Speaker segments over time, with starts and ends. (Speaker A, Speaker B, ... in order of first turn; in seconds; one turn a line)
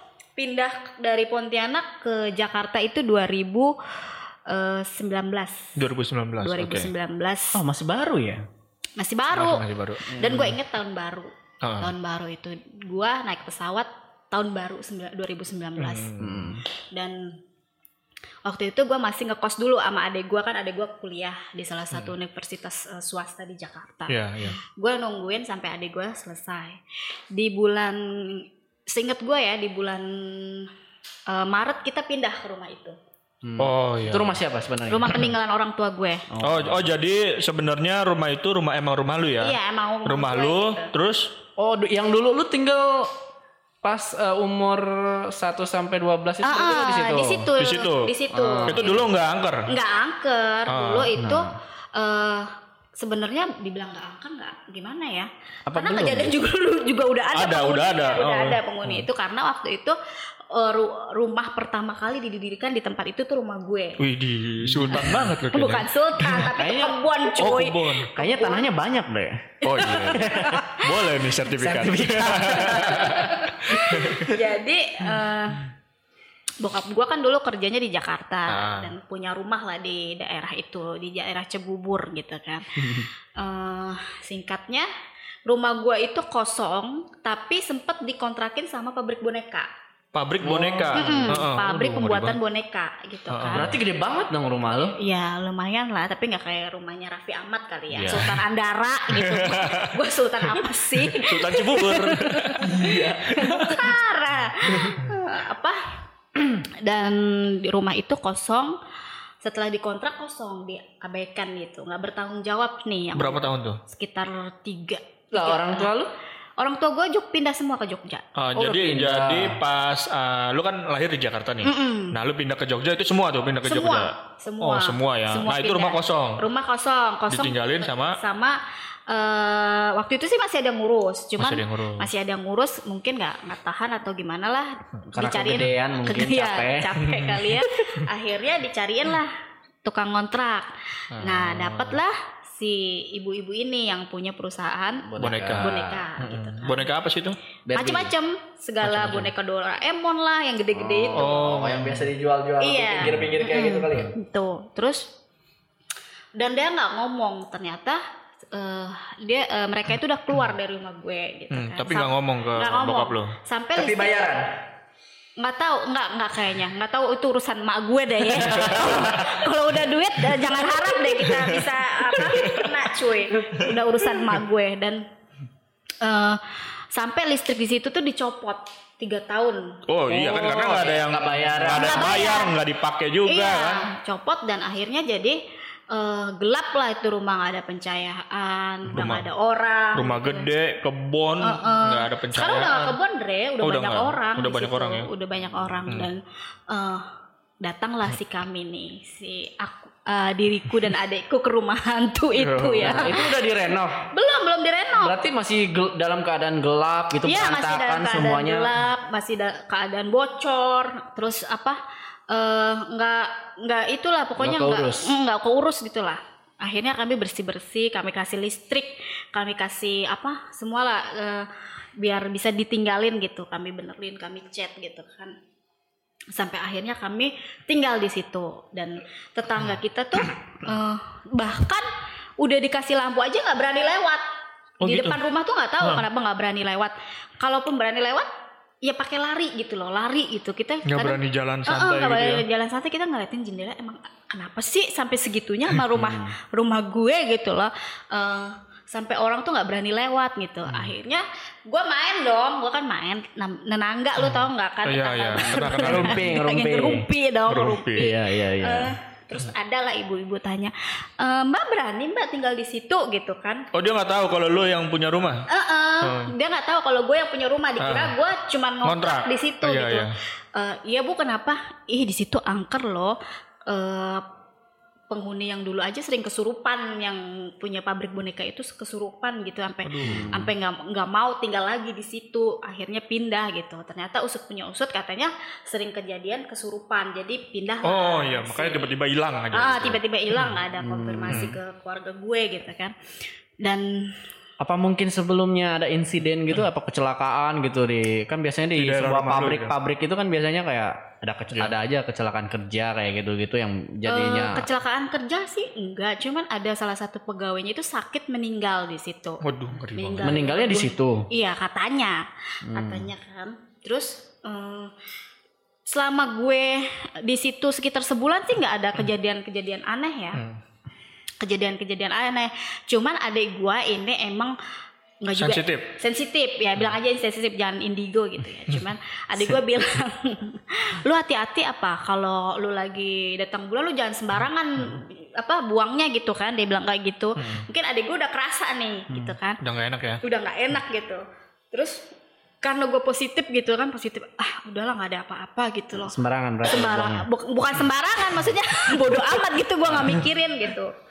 Speaker A: 0.4-3.8
Speaker A: 4.5-5.8
Speaker B: 5.8-6.9
Speaker A: 6.4-7.6
Speaker C: 7.5-8.4
Speaker A: 9.0-16.1
Speaker B: 9.3-10.5
Speaker C: 10.1-10.5
Speaker B: 11.6-11.9
Speaker B: 15.8-16.5
Speaker C: 16.2-16.6
Speaker A: 16.9-17.4
Speaker A: 18.4-26.8
Speaker B: 24.1-24.6
Speaker A: 27.3-30.7
Speaker A: 31.3-33.0
Speaker C: 33.4-35.3
Speaker B: 33.6-34.4
Speaker A: 34.9-36.2
Speaker C: 36.3-36.9
Speaker B: 36.4-41.4
Speaker A: 39.4-40.9
Speaker C: 41.6-43.1
Speaker C: 43.8-47.5
Speaker A: 46.4-49.1
Speaker B: 47.6-48.1
Speaker C: 48.3-49.0
Speaker B: 48.6-49.7
Speaker A: 49.7-60.0
Speaker B: 50.7-51.1
Speaker C: 51.1-51.5
Speaker C: 55.7-56.4
Speaker B: 57.3-59.0
Speaker A: 60.5-64.0
Speaker B: 64.0-66.5
Speaker A: 65.5-68.7
Speaker C: 66.5-67.5
Speaker B: 67.3-68.1
Speaker C: 68.1-70.6
Speaker A: 69.6-71.1
Speaker B: 69.6-74.3
Speaker C: 71.5-74.2
Speaker A: 73.0-75.7
Speaker A: 76.6-84.9
Speaker B: 78.5-78.9
Speaker A: 85.5-89.7
Speaker B: 90.1-92.4
Speaker C: 90.4-91.5
Speaker A: 90.9-93.7
Speaker B: 93.3-93.7
Speaker C: 93.5-95.0
Speaker A: 94.9-108.8
Speaker B: 97.9-98.4
Speaker B: 99.1-99.9
Speaker B: 101.0-102.7
Speaker C: 102.6-103.8
Speaker B: 104.8-105.0
Speaker A: 109.4-115.9
Speaker B: 113.1-113.8
Speaker C: 115.3-116.1
Speaker A: 116.6-118.2
Speaker B: 118.3-126.4
Speaker C: 118.5-119.6
Speaker A: 121.6-122.2
Speaker A: 123.6-145.1
Speaker B: 127.3-128.2
Speaker B: 131.4-132.1
Speaker C: 135.1-136.9
Speaker B: 137.0-137.5
Speaker B: 141.1-142.0
Speaker C: 145.1-146.0
Speaker B: 145.2-147.4
Speaker A: 145.6-146.9
Speaker C: 147.7-148.1
Speaker A: 147.7-151.7
Speaker B: 148.8-149.3
Speaker C: 150.7-154.1
Speaker B: 151.1-152.1
Speaker A: 152.6-155.1
Speaker B: 153.0-153.3
Speaker A: 156.3-164.4
Speaker B: 161.5-163.3
Speaker C: 163.7-164.6
Speaker A: 165.4-175.0
Speaker C: 168.4-169.3
Speaker B: 171.3-172.8
Speaker A: 176.0-179.8
Speaker B: 179.9-183.8
Speaker C: 180.1-182.2
Speaker A: 181.7-182.6
Speaker A: 183.2-190.5
Speaker B: 188.9-189.2
Speaker B: 189.9-193.0
Speaker A: 191.4-197.1
Speaker B: 193.6-195.1
Speaker A: 197.6-203.3
Speaker B: 202.4-203.1
Speaker C: 202.8-204.1
Speaker A: 204.1-205.2
Speaker C: 204.9-208.7
Speaker A: 207.2-225.4
Speaker C: 214.4-215.1
Speaker A: 226.3-231.9
Speaker A: 232.4-234.2
Speaker B: 234.8-235.2
Speaker A: 234.8-238.3
Speaker A: 238.8-263.7
Speaker B: 240.8-242.4
Speaker C: 245.9-246.3
Speaker B: 254.2-256.3
Speaker C: 255.4-257.1
Speaker B: 257.5-258.1
Speaker C: 257.9-258.9
Speaker B: 263.7-265.5
Speaker A: 265.5-274.2
Speaker B: 266.0-266.3
Speaker B: 267.8-268.2
Speaker B: 268.8-270.1
Speaker A: 275.1-288.9
Speaker B: 279.8-280.4
Speaker C: 280.0-280.5
Speaker B: 287.8-290.0
Speaker A: 289.5-292.9
Speaker C: 290.8-291.5
Speaker B: 291.3-291.6
Speaker A: 293.6-294.1
Speaker C: 294.6-304.7
Speaker B: 298.7-299.7
Speaker A: 304.1-314.9
Speaker B: 309.4-310.5
Speaker C: 310.2-311.3
Speaker C: 312.6-313.1
Speaker A: 315.9-320.4
Speaker A: 321.4-324.6
Speaker A: 325.2-339.6
Speaker B: 325.3-325.9
Speaker B: 337.4-337.7
Speaker B: 339.6-340.2
Speaker A: 340.2-342.1
Speaker A: 342.6-350.9
Speaker C: 346.0-347.3